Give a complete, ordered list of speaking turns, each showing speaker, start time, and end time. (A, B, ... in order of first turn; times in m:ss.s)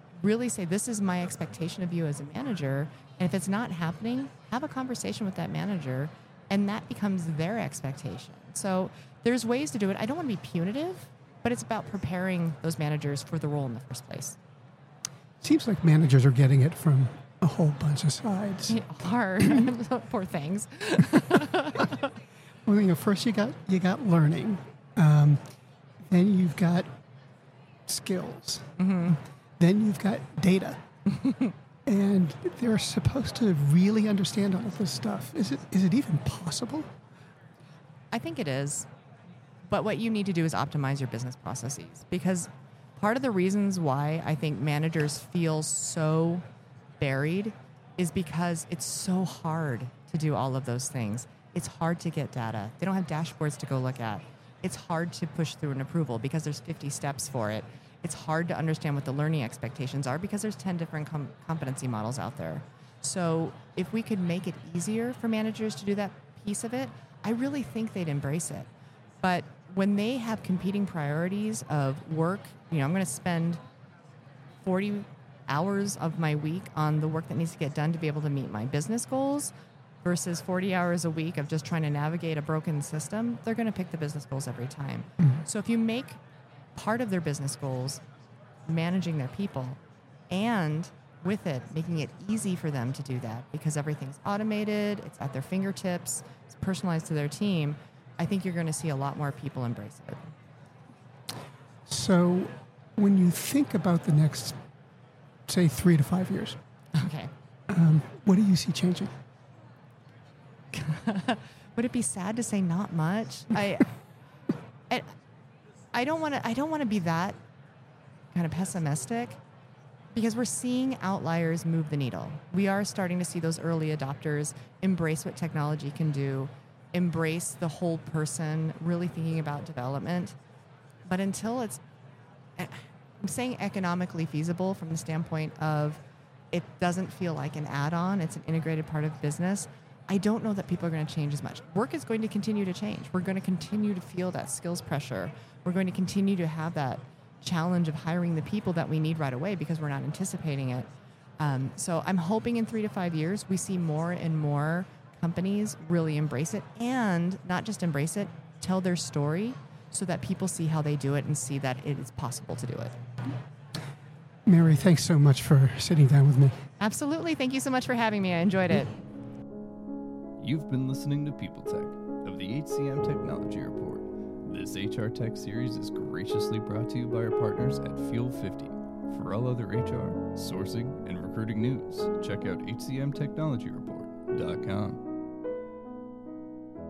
0:00.2-0:14.4 A
0:15.4-0:18.8 B
0:18.7-0:22.0 A
0:22.6-0:25.4 B
0:26.1-0:26.9 B
0:27.9-0:28.6 B
0:28.8-0:29.2 A
0:29.6-0:30.8 B
0:31.9-0:36.9 B
0:38.1-0:38.9 A
0:39.6-0:46.4 A
0:47.0-1:08.7 A
1:09.2-1:13.6 A
1:14.6-1:19.5 A
1:20.0-1:26.2 A
1:26.7-1:28.0 A
1:28.7-1:29.8 A
1:30.3-1:40.2 A
1:41.9-1:44.5 B
1:45.5-1:46.6 B
1:47.0-1:47.3 A
1:47.7-1:49.1 B
1:50.7-1:53.9 A
1:55.9-1:57.4 A
1:58.3-1:59.4 A
2:00.1-2:10.4 A
2:11.0-2:11.8 A
2:12.6-2:16.0 A
2:16.5-2:30.9 A
2:31.4-2:42.9 A
2:44.5-2:46.5 B
2:46.8-2:49.0 A
2:50.4-3:05.0 C